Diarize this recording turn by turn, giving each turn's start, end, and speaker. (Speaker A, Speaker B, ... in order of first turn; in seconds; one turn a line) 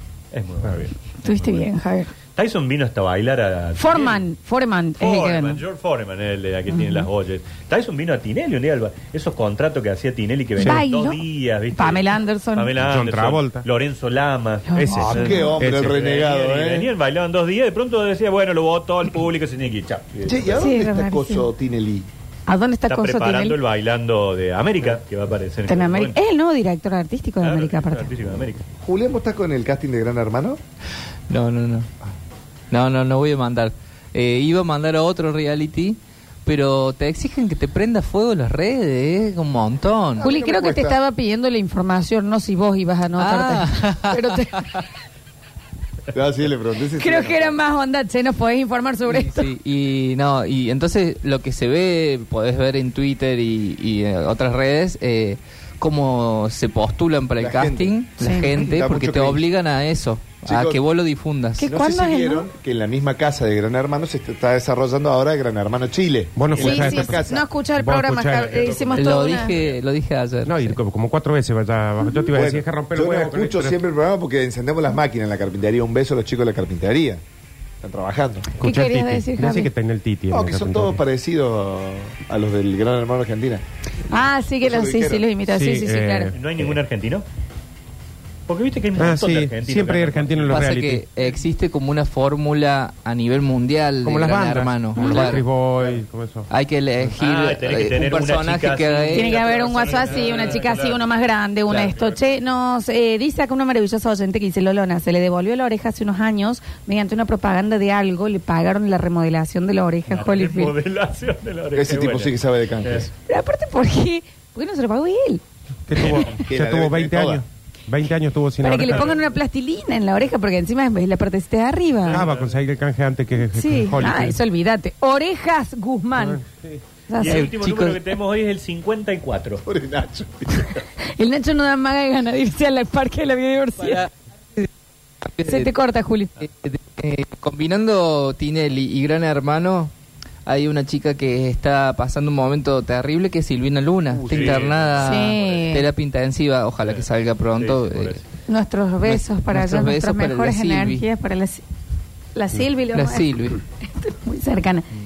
Speaker A: 0.3-1.6
Speaker B: 1.2-2.1
Speaker A: 2.4-4.2
Speaker B: 3.8-5.6
Speaker A: 5.0-20.7
Speaker B: 6.7-7.1
Speaker C: 10.6-10.8
Speaker B: 10.6-12.7
Speaker C: 12.8-13.6
Speaker B: 14.7-15.6
Speaker C: 14.8-16.0
Speaker D: 15.0-16.9
Speaker D: 20.2-22.1
Speaker B: 20.6-21.5
Speaker B: 22.5-23.6
Speaker A: 22.9-26.2
Speaker B: 25.7-28.1
Speaker A: 27.4-28.6
Speaker D: 28.8-30.6
Speaker E: 31.3-31.9
Speaker E: 32.7-40.3
Speaker D: 40.2-41.0
Speaker B: 40.2-44.8
Speaker E: 43.2-44.8
Speaker D: 46.1-47.6
Speaker B: 47.0-49.5
Speaker E: 49.1-61.7
Speaker D: 57.4-57.9
Speaker B: 58.2-58.5
Speaker D: 58.6-59.4
Speaker D: 60.4-60.8
Speaker B: 61.6-62.5
Speaker D: 61.6-67.5
Speaker C: 66.4-68.6
Speaker A: 66.5-66.9
Speaker B: 66.5-69.6
Speaker A: 68.3-69.8
Speaker E: 68.9-70.8
Speaker C: 70.5-73.8
Speaker D: 72.3-77.2
Speaker D: 77.8-78.5
Speaker B: 78.6-79.7
Speaker C: 78.6-81.0
Speaker D: 80.3-85.3
Speaker B: 84.1-86.3
Speaker C: 85.5-86.8
Speaker A: 86.3-87.2
Speaker A: 88.5-90.6
Speaker C: 89.0-91.0
Speaker E: 90.5-95.4
Speaker C: 94.0-96.5
Speaker B: 95.0-95.4
Speaker E: 96.5-99.4
Speaker A: 97.2-101.0
Speaker B: 99.1-110.7
Speaker E: 100.0-100.4
Speaker E: 101.7-102.0
Speaker A: 110.1-113.1
Speaker D: 111.7-113.1
Speaker B: 113.3-115.4
Speaker C: 115.9-119.1
Speaker A: 116.0-116.3
Speaker D: 116.4-117.4
Speaker B: 118.6-122.2
Speaker A: 118.8-119.2
Speaker A: 122.0-122.6
Speaker C: 122.1-124.4
Speaker B: 123.5-126.4
Speaker C: 126.2-126.8
Speaker B: 127.1-127.5
Speaker A: 127.1-129.6
Speaker E: 127.2-128.1
Speaker D: 129.7-130.7
Speaker B: 131.1-134.1
Speaker E: 133.8-134.7
Speaker E: 135.2-135.7
Speaker B: 135.4-136.3
Speaker E: 136.4-139.9
Speaker E: 140.4-148.2
Speaker D: 144.1-144.7
Speaker A: 144.2-145.4
Speaker B: 145.0-145.9
Speaker A: 146.8-148.2
Speaker B: 148.5-151.6
Speaker E: 149.0-151.1
Speaker B: 152.3-154.9
Speaker E: 152.9-153.6